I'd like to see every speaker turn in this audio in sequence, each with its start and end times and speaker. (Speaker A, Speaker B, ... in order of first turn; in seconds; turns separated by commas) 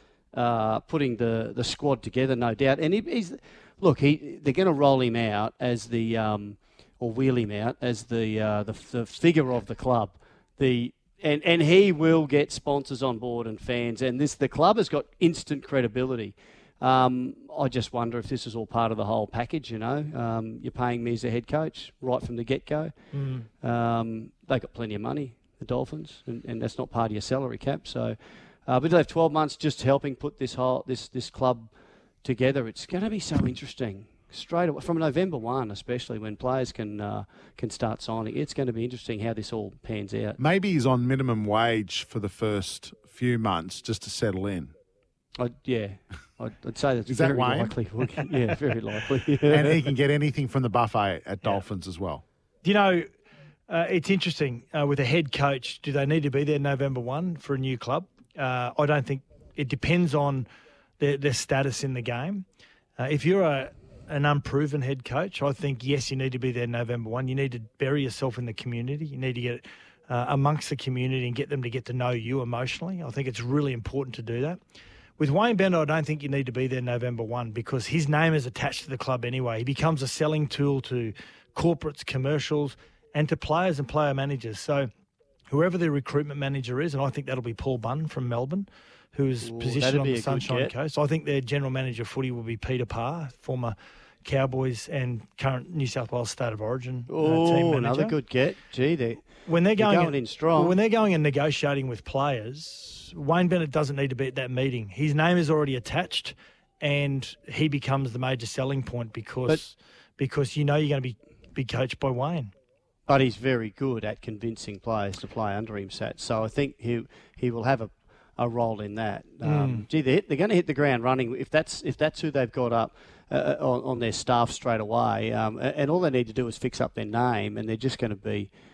Speaker A: 0.3-22.9, Speaker B: 23.1-23.5, Speaker A: 23.6-31.7, Speaker A: 32.2-40.4, Speaker C: 40.4-44.7, Speaker A: 45.4-49.8, Speaker C: 47.1-47.8, Speaker C: 49.5-52.2, Speaker B: 52.6-53.1, Speaker B: 53.7-60.5, Speaker B: 61.0-62.4, Speaker B: 63.0-74.6, Speaker B: 75.2-84.9, Speaker B: 85.5-98.2, Speaker A: 89.4-90.7, Speaker A: 97.1-100.8, Speaker B: 99.4-112.5, Speaker A: 113.1-128.5, Speaker B: 119.4-119.8